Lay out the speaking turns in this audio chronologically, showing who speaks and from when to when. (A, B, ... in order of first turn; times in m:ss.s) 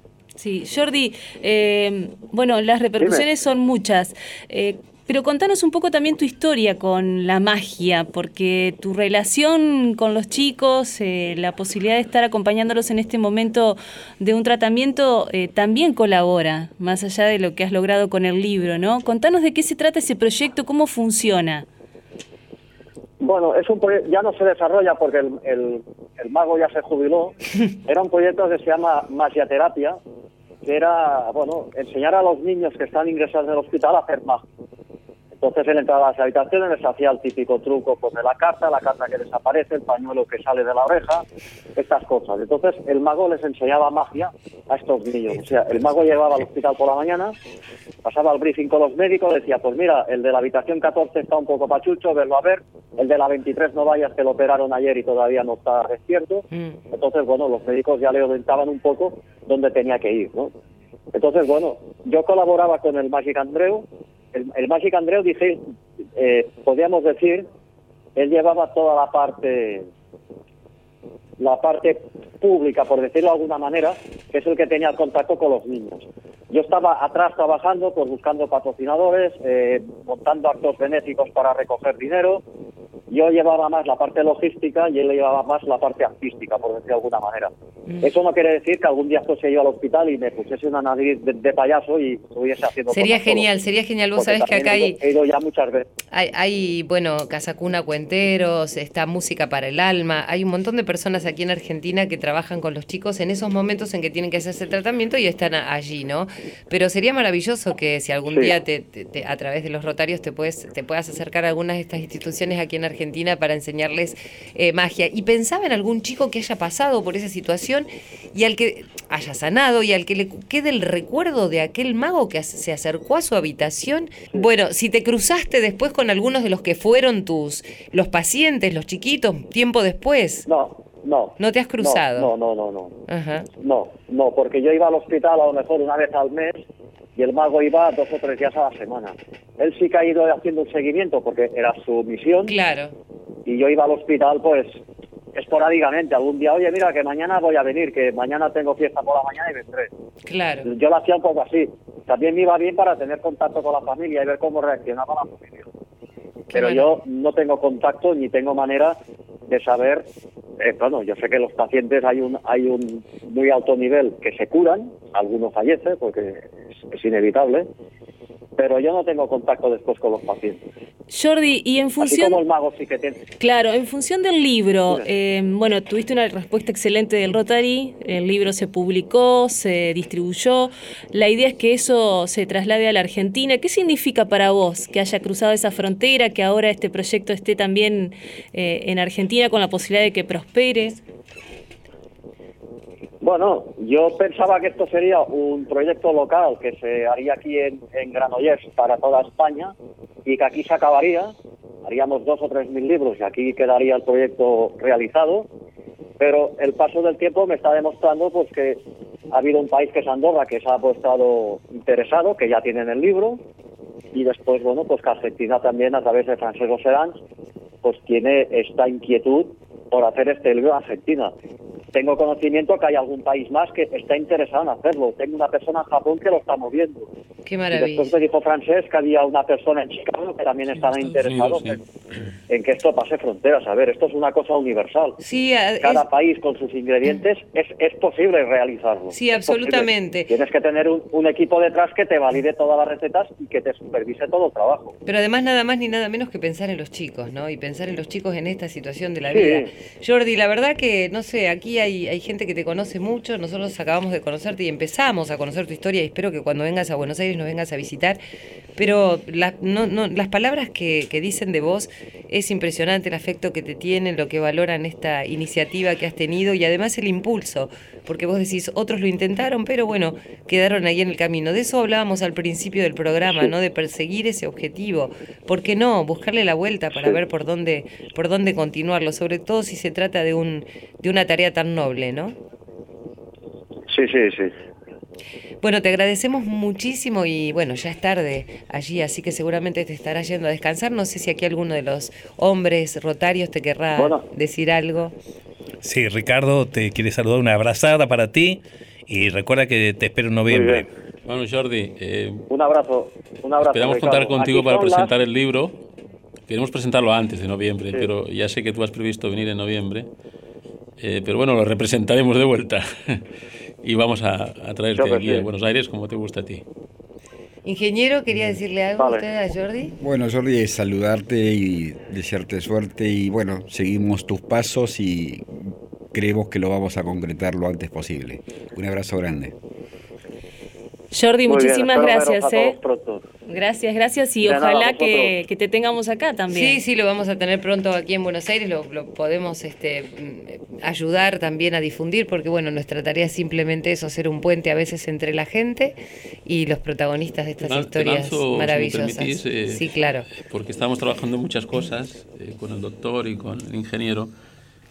0:00.4-0:21.6 A
0:03.0-0:03.2 B
0:23.2-0:30.0 B
0:30.6-0:34.4 B
0:35.4-0:41.2 B
0:41.8-0:47.3 B
0:48.0-1:00.5 B
0:56.5-0:56.8 C
1:01.1-1:05.6 B
1:06.2-1:07.5 B
1:08.2-1:09.9 B
1:11.4-1:22.4 B
1:23.1-1:33.5 B
1:32.9-1:35.0 C
1:34.1-1:35.9 B
1:36.1-2:10.4 C
2:10.4-2:13.0 B
2:11.4-2:12.3 C
2:13.1-2:13.5 C
2:13.6-2:16.6 B
2:17.2-2:22.5 B
2:22.4-2:22.9 C
2:23.4-2:24.8 B
2:25.3-2:29.9 B
2:30.2-2:30.7 C
2:30.6-2:35.7 B
2:36.5-2:36.9 C
2:36.5-2:40.0 B
2:40.6-2:47.7 B
2:48.6-2:50.6 B
2:51.1-2:52.4 A
2:52.0-2:53.2 B
2:53.4-3:11.0 A
2:54.8-2:55.1 B
3:13.2-3:19.7 B
3:20.2-3:21.3 B
3:21.8-3:25.5 B
3:26.2-3:33.4 B
3:34.1-3:37.2 B
3:37.8-3:41.3 B
3:41.9-3:47.1 B
3:47.4-3:48.1 C
3:47.7-3:51.8 B
3:51.0-3:51.8 D
3:52.5-3:55.2 B
3:55.2-3:56.0 C
3:55.8-4:04.9 B
3:59.1-4:00.3 C
4:05.0-4:18.2 C
4:09.3-4:09.7 B
4:18.8-4:42.4 C
4:43.9-4:44.5 B
4:45.6-4:55.1 C
4:53.9-4:54.2 B
4:55.8-5:00.9 E
5:00.5-5:00.9 B
5:01.2-5:02.4 D
5:02.5-5:05.1 B
5:03.6-5:05.8 D
5:06.5-5:10.1 D
5:11.0-5:13.2 D
5:13.8-5:16.6 D
5:14.9-5:15.5 B
5:17.6-5:19.9 C
5:18.3-5:18.6 F
5:19.0-5:19.2 B
5:20.0-5:29.5 F
5:31.1-5:32.8 A
5:31.4-5:33.2 B
5:33.4-5:36.8 A
5:34.4-5:35.4 B
5:36.5-5:50.3 C
5:47.6-5:54.3 D